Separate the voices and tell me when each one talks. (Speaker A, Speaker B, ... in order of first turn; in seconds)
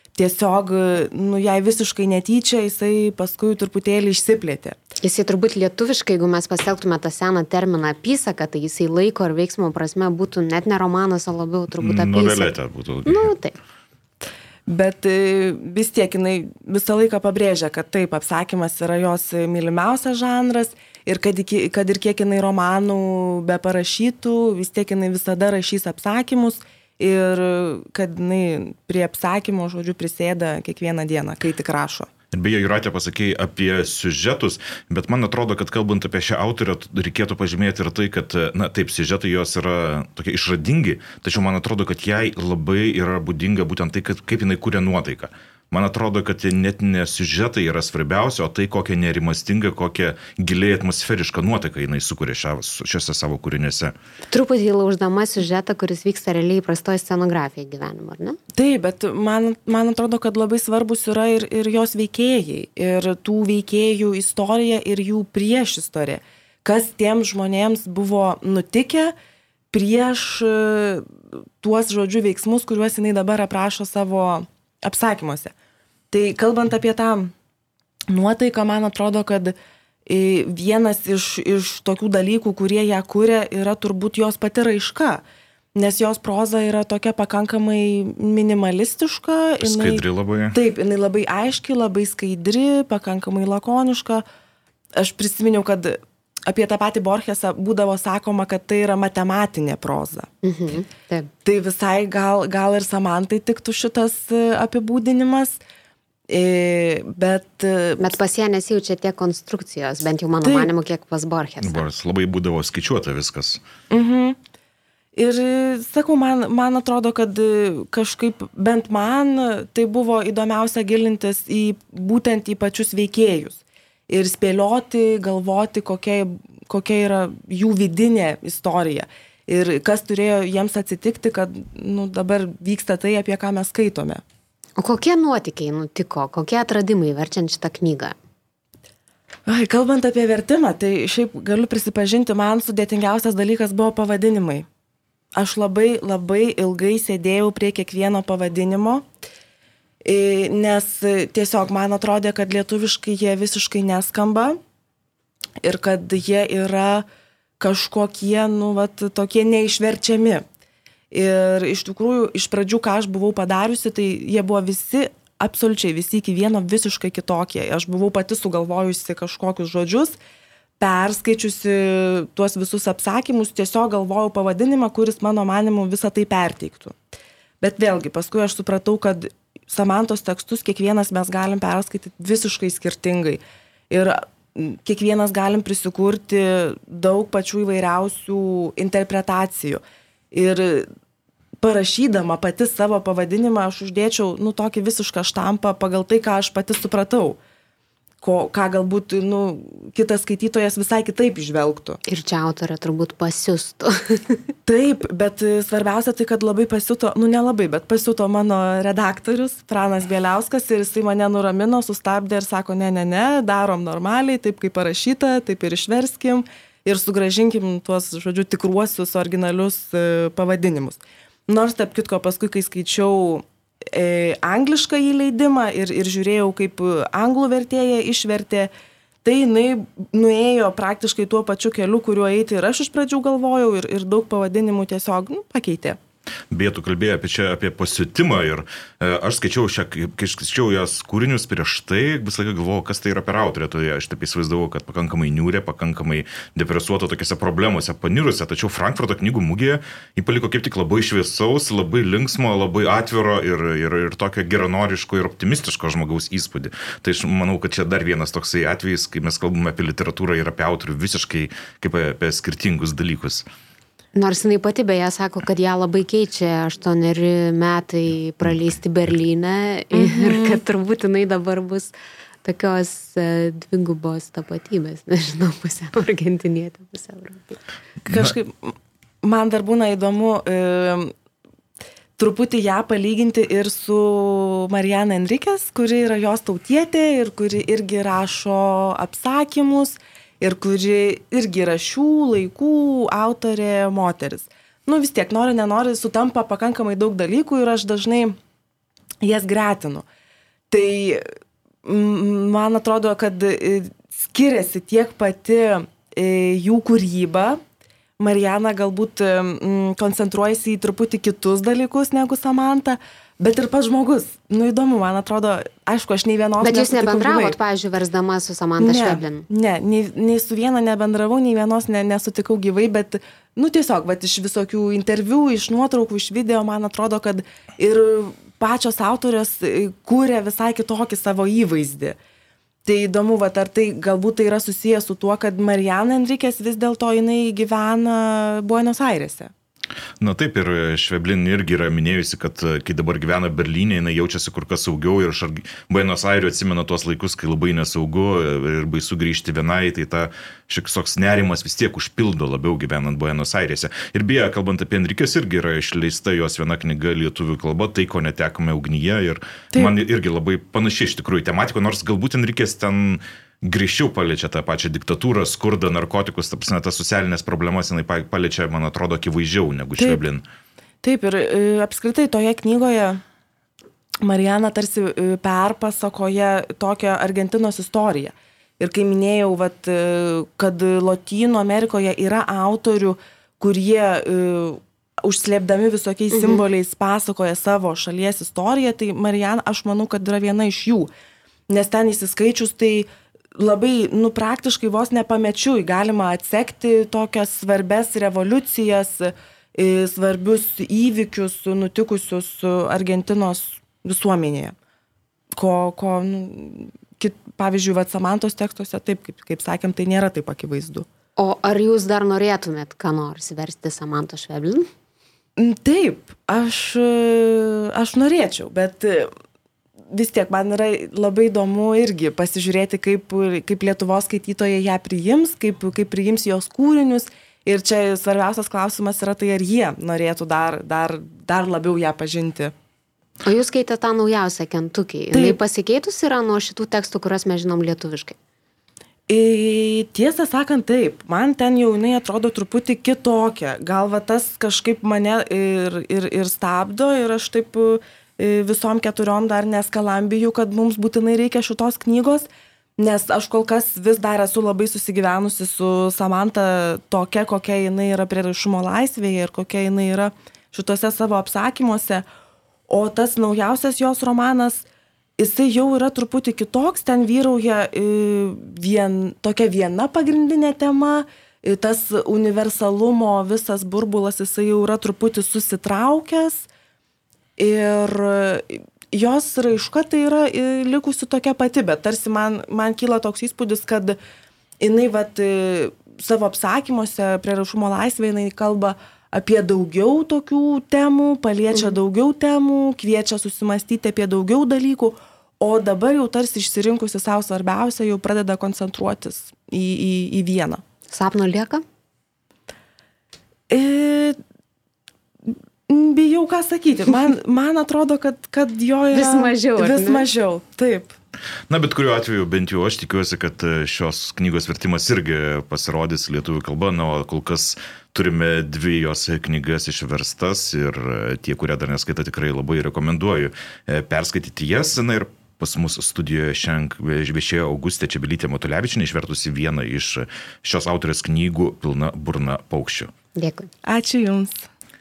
Speaker A: 0.1-4.8, 14.7-32.1, 58.5-69.1, 69.7-71.1, 71.6-75.5, 76.1-77.3, 78.1-79.5, 80.1-85.2, 85.7-90.0, 90.5-94.2, 95.0-100.3, 101.4-105.6, 106.3-108.1, 110.4-110.7, 113.9-114.4, 115.1-134.2, 139.5-144.7, 145.3-149.1, 150.0-154.6, 155.6-157.0, 157.6-160.4, 161.1-170.2, 170.8-177.0, 177.6-189.8, 190.3-190.9, 191.6-197.4, 198.2-202.0, 204.7-228.7, 229.2-236.0, 269.9-270.6, 278.1-281.1, 282.2-298.4, 299.2-300.1, 300.7-301.3, 301.8-307.6, 308.2-317.6, 318.8-332.2, 332.8-339.5, 371.0-373.2, 374.2-391.1, 391.7-404.8, 405.6-411.1, 415.6-419.3, 420.1-432.7, 439.3-462.2, 462.9-464.8, 465.4-476.7, 477.6-484.2, 484.8-500.8, 503.7-504.4, 505.5-511.1, 533.8-534.7
Speaker B: 5.0-12.5, 13.0-13.6, 54.3-58.4, 100.4-101.3, 108.0-111.8, 134.8-138.1, 202.0-204.4, 264.1-271.9, 272.4-277.6, 316.6-319.4, 386.3-386.6, 411.4-414.9, 433.4-438.4, 501.1-501.8, 509.1-510.3, 533.4-533.7
Speaker C: 11.8-13.3, 32.3-53.9, 89.6-90.6, 111.6-113.6, 236.5-263.4, 278.1-278.3, 340.2-370.4, 511.7-533.1